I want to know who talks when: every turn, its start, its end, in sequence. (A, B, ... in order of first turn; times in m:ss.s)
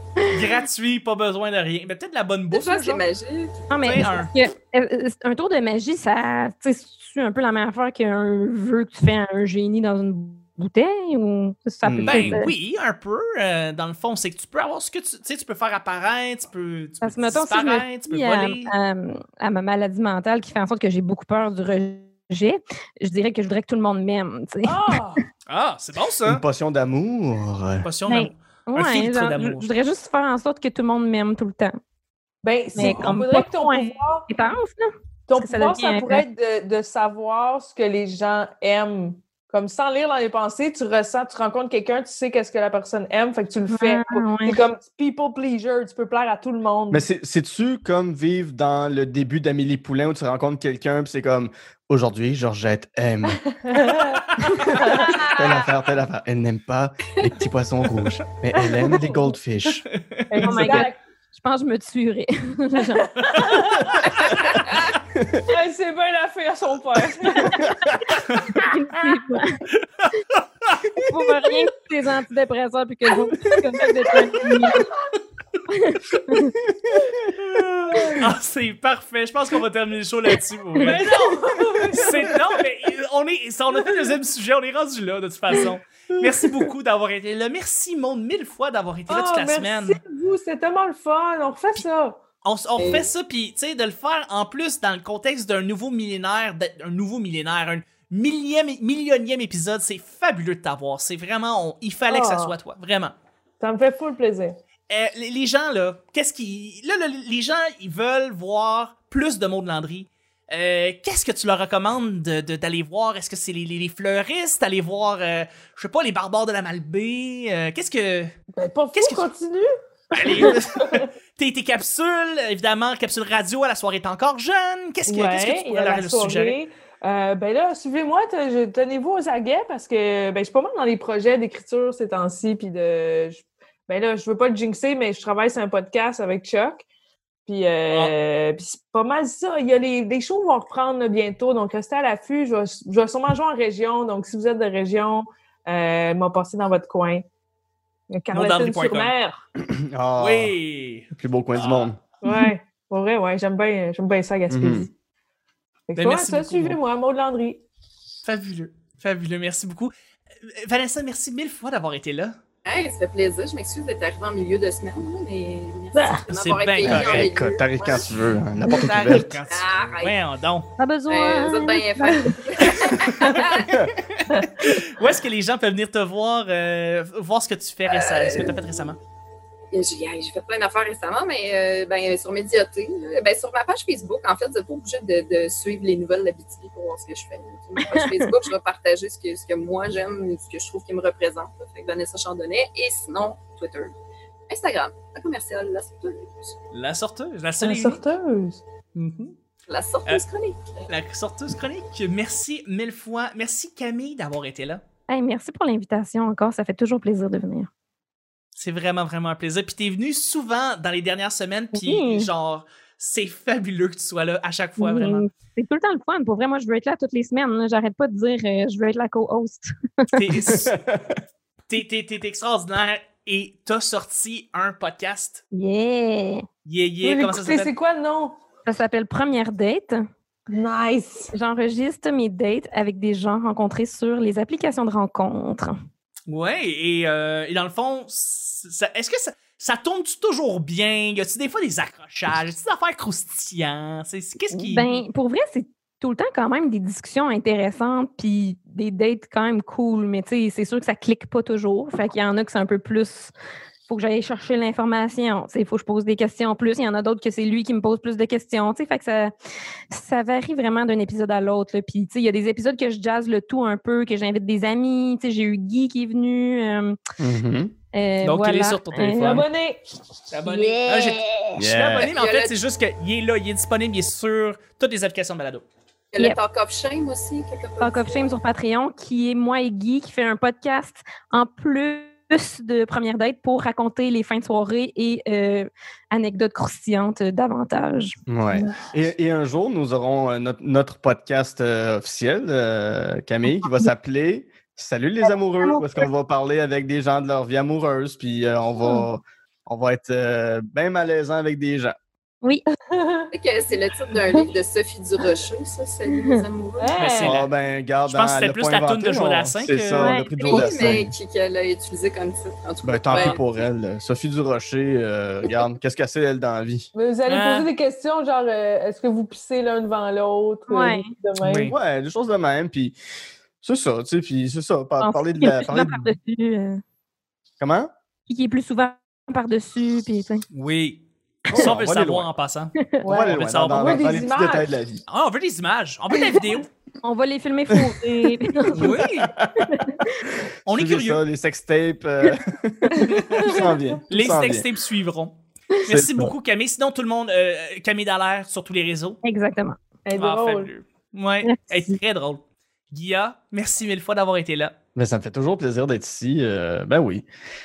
0:00.3-0:03.0 A
0:02.5-0:03.6 B
0:03.7-0:12.5 C
0:03.8-0:04.3 A
0:11.8-0:12.4 D
0:12.0-0:18.7 A
0:17.0-0:25.0 C
0:24.6-0:25.2 E
0:25.5-0:26.4 A
0:26.2-0:27.9 D
0:27.8-0:29.7 A
0:28.1-0:31.8 C
0:32.4-0:34.3 E
0:32.8-0:36.2 C
0:32.8-0:33.1 A
0:35.3-0:47.0 E
0:43.7-0:44.6 C
0:46.9-0:53.4 D
0:53.3-0:55.3 E
0:54.3-0:54.7 A
0:54.7-0:59.8 D
0:54.9-0:55.7 C
0:58.6-0:59.3 E
0:59.9-1:00.8 A
1:00.3-1:01.0 E
1:00.4-1:03.4 C
1:02.8-1:04.3 E
1:03.3-1:04.2 A
1:05.1-1:05.5 D
1:05.5-1:07.8 E
1:07.6-1:08.1 D
1:08.4-1:09.6 C
1:09.8-1:10.9 A
1:11.0-1:14.9 C
1:14.4-1:14.8 E
1:15.7-1:16.6 C
1:16.6-1:17.4 D
1:17.4-1:30.0 A
1:20.8-1:22.4 E
1:29.1-1:32.2 E
1:32.4-1:43.2 A
1:32.8-1:33.1 B
1:42.1-1:42.6 E
1:43.6-1:44.6 E
1:44.9-1:58.4 A
1:58.6-2:01.1 E
1:58.9-1:59.3 A
2:00.1-2:06.6 A
2:05.1-2:16.8 E
2:17.5-2:27.3 E
2:28.1-2:29.5 E
2:28.3-2:29.1 A
2:29.6-2:30.6 D
2:30.2-2:31.9 A
2:31.2-2:32.0 D
2:32.2-2:34.9 E
2:34.5-2:34.9 D
2:35.9-2:37.6 E
2:36.0-2:36.8 A
2:38.2-2:39.9 A
2:40.4-2:42.4 A
2:42.6-2:48.1 B
2:45.9-2:46.2 E
2:46.3-2:47.3 A
2:46.8-2:49.4 D
2:48.7-2:50.7 A
2:49.5-2:50.2 B
2:50.8-2:52.8 C
2:51.1-2:53.8 B
2:52.8-2:53.4 A
2:53.6-2:54.0 D
2:54.3-2:54.6 E
2:54.4-2:59.0 A
2:57.9-2:58.8 B
2:59.7-3:13.9 B
3:07.8-3:08.3 C
3:14.5-3:16.6 B
3:16.7-3:18.0 A
3:17.6-3:18.6 E
3:19.0-3:19.4 A
3:19.7-3:20.8 B
3:20.9-3:24.8 A
3:25.1-3:27.7 C
3:28.6-3:35.2 A
3:31.7-3:32.3 C
3:34.8-3:40.2 C
3:40.1-3:40.8 A
3:40.5-3:41.2 D
3:41.7-3:45.4 A
3:45.5-3:46.5 C
3:46.6-3:47.7 A
3:47.0-3:48.4 E
3:48.7-3:50.0 C
3:50.5-3:51.3 E
3:51.3-3:55.8 C
3:56.3-4:04.8 A
4:04.5-4:05.0 E
4:04.7-4:13.3 C
4:13.9-4:19.3 C
4:19.9-4:27.0 C
4:27.2-4:27.7 D
4:27.9-4:29.4 C
4:28.2-4:29.4 A
4:29.2-4:29.8 E
4:30.3-4:35.6 A
4:30.4-4:31.6 C
4:31.6-4:32.1 D
4:32.0-4:32.6 B
4:36.1-4:38.3 B
4:37.8-4:48.2 C
4:48.3-5:02.0 D
4:48.5-4:48.9 E
4:53.5-4:53.9 C
4:55.6-4:56.0 C
5:02.9-5:03.3 E
5:03.3-5:07.1 B
5:06.1-5:06.4 C
5:06.8-5:07.4 E
5:07.0-5:07.5 A
5:07.2-5:11.1 D
5:08.1-5:10.2 A
5:10.0-5:10.7 C
5:10.4-5:13.4 B
5:12.8-5:16.9 D
5:16.9-5:21.8 E
5:17.3-5:17.7 A
5:20.7-5:21.1 C
5:21.4-5:21.8 A
5:21.7-5:23.0 D
5:23.6-5:26.2 D
5:25.0-5:26.8 C
5:27.6-5:27.9 D
5:28.3-5:30.4 C
5:30.5-5:32.8 A
5:31.5-5:32.3 D
5:33.0-5:34.7 E
5:33.1-5:35.0 D
5:33.3-5:34.0 A
5:35.1-5:36.7 A
5:36.1-5:36.4 C
5:37.0-5:39.0 C
5:37.7-5:38.0 D
5:38.7-5:39.3 A
5:38.9-5:39.9 D
5:39.7-5:40.2 C
5:40.5-5:44.7 D
5:40.7-5:41.2 A
5:43.0-5:43.8 E
5:44.1-5:49.2 A
5:45.9-5:46.3 D
5:49.2-5:49.8 C
5:50.1-5:50.7 E
5:50.2-5:54.8 A
5:51.4-5:52.0 C
5:55.0-5:57.3 D